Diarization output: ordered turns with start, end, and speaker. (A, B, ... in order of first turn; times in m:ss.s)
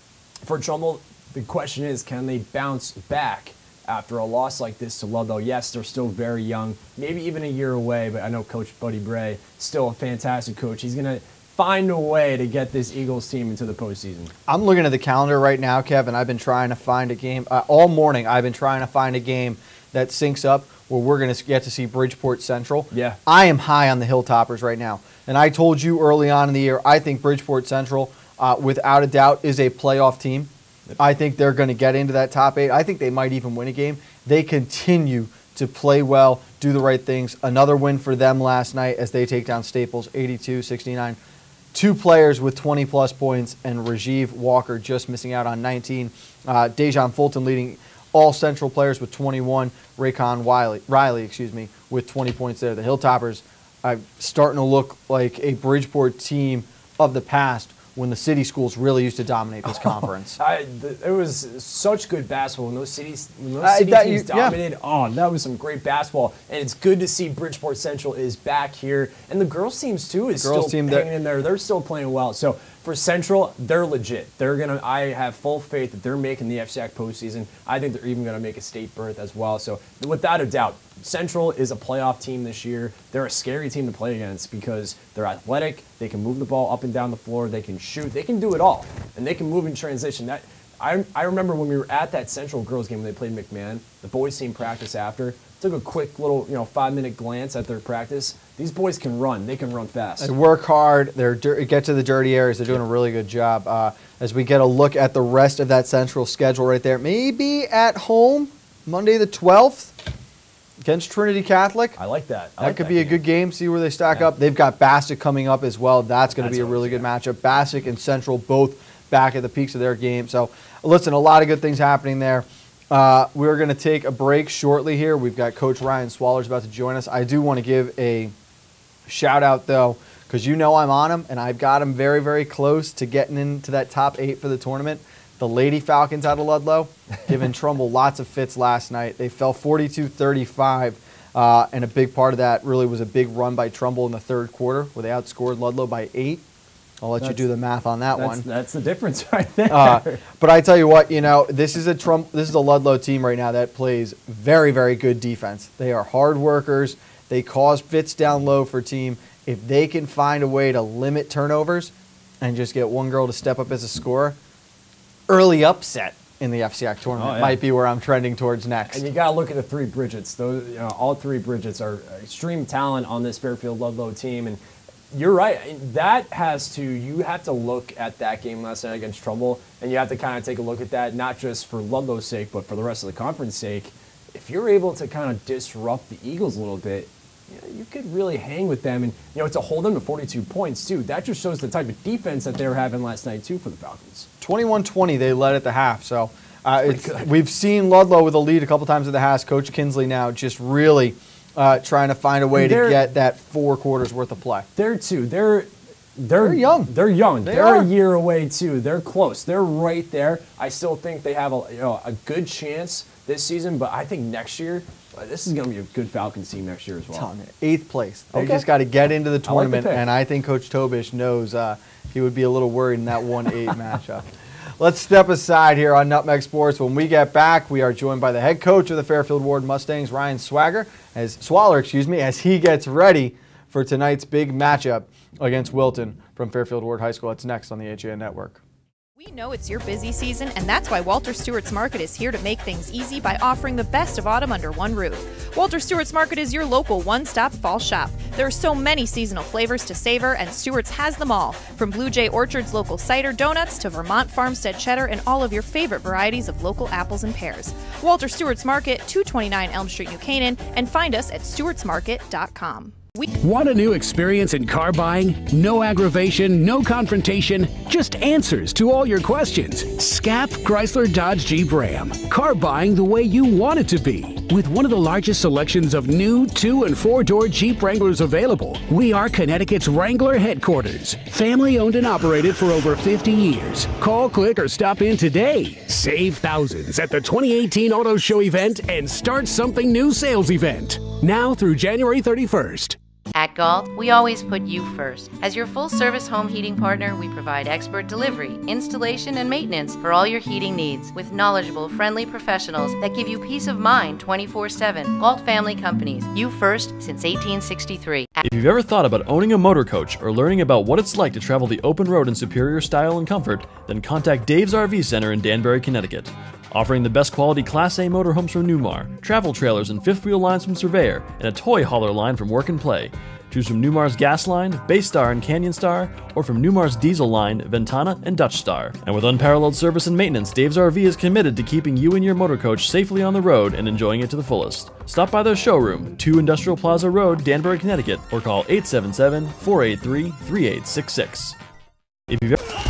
0:00.4-0:14.3 A
0:14.5-0:41.2 B
0:22.9-0:23.2 A
0:41.7-1:00.4 B
0:59.7-1:40.3 A
1:03.6-1:04.6 B
1:10.4-1:11.1 B
1:40.2-1:50.0 B
1:50.8-1:52.0 B
1:52.0-1:53.2 A
1:52.6-2:08.3 B
1:56.4-1:57.0 A
2:09.1-2:26.4 B
2:27.0-2:28.4 B
2:27.2-2:27.5 A
2:28.1-2:30.2 A
2:29.7-2:44.4 B
2:45.3-2:49.1 B
2:47.1-2:47.6 A
2:48.9-2:54.6 A
2:55.1-3:14.3 A
3:14.4-3:24.6 B
3:16.8-3:17.3 A
3:22.5-3:23.1 A
3:24.7-3:37.3 A
3:26.4-3:26.9 B
3:27.4-3:27.9 B
3:37.1-3:44.3 B
3:38.3-3:38.6 A
3:39.4-3:40.1 A
3:44.8-3:58.6 B
3:59.2-4:23.3 C
4:23.4-4:53.0 D
4:53.3-5:08.4 E
5:08.4-5:41.6 F
5:42.3-5:42.7 F